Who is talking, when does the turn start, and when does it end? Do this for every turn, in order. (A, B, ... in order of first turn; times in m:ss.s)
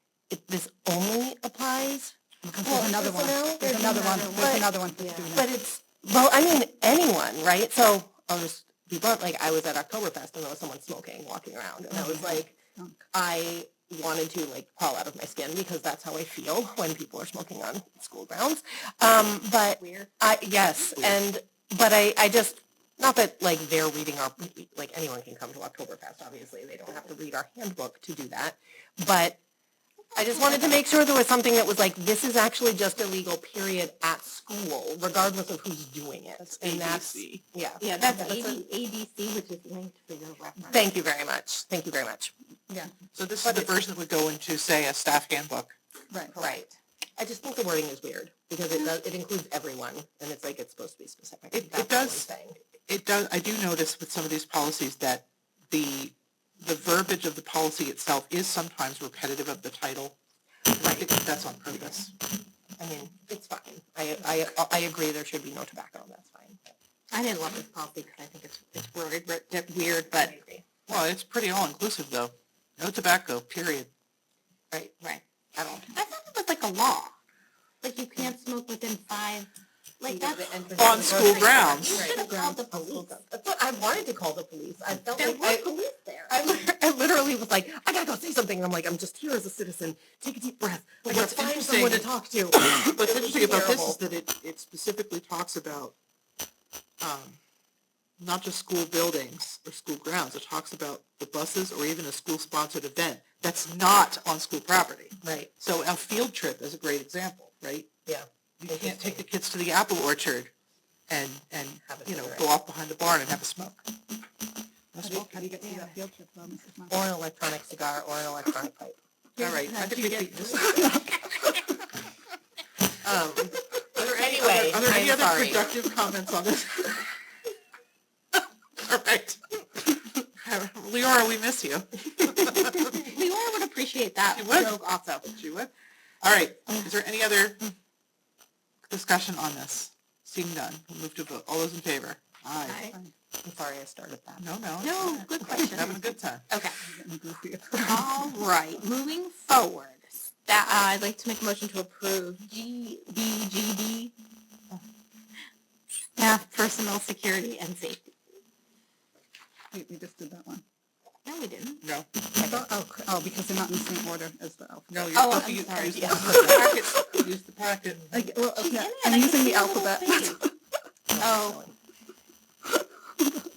0:00.3-0:04.7 A
0:02.4-0:05.5 B
0:04.2-0:05.4 C
0:05.3-0:12.6 A
0:11.9-0:13.0 B
0:13.1-0:29.4 A
0:19.8-0:20.1 C
0:30.1-0:30.8 C
0:30.2-0:38.6 A
0:36.4-0:37.4 D
0:37.8-0:40.8 C
0:40.7-0:42.3 A
0:43.1-0:45.8 D
0:43.4-0:43.7 A
0:46.3-0:52.6 A
0:46.4-0:46.6 C
0:51.5-0:52.3 D
0:52.9-1:00.2 D
1:00.8-1:02.1 D
1:02.8-1:06.6 A
1:07.1-1:10.4 C
1:10.1-1:11.0 A
1:10.9-1:13.9 D
1:14.7-1:15.2 C
1:15.6-1:15.9 A
1:15.9-1:17.2 C
1:17.8-1:23.2 C
1:20.1-1:25.7 A
1:20.8-1:22.2 D
1:25.2-1:26.6 C
1:26.3-1:34.0 A
1:31.1-1:36.0 D
1:37.0-1:37.4 D
1:38.2-1:47.9 D
1:45.2-1:45.5 A
1:48.1-1:49.2 A
1:48.6-1:50.5 D
1:51.1-1:53.8 D
1:51.8-1:52.5 A
1:54.9-1:55.5 D
1:55.0-1:57.1 B
1:55.6-1:56.0 C
1:56.9-1:59.0 A
1:59.4-1:59.7 B
1:59.4-2:00.8 D
1:59.7-2:01.1 C
2:00.7-2:01.6 B
2:03.0-2:05.7 A
2:04.0-2:07.2 D
2:08.8-2:09.4 D
2:10.4-2:13.0 D
2:12.3-2:15.2 C
2:14.3-2:17.6 D
2:16.7-2:16.9 C
2:18.9-2:22.8 D
2:22.6-2:23.0 C
2:22.8-2:23.1 B
2:23.4-2:24.4 A
2:24.4-2:26.4 D
2:24.8-2:26.8 C
2:26.8-2:28.2 B
2:27.8-2:34.1 C
2:36.2-2:38.1 C
2:39.7-2:40.6 B
2:41.2-2:41.8 C
2:41.8-2:42.1 D
2:42.4-2:47.2 B
2:44.9-2:48.3 D
2:45.1-2:46.9 C
2:48.1-2:50.5 B
2:48.6-2:50.4 C
2:51.1-2:51.7 A
2:51.2-2:51.6 C
2:52.7-2:53.5 B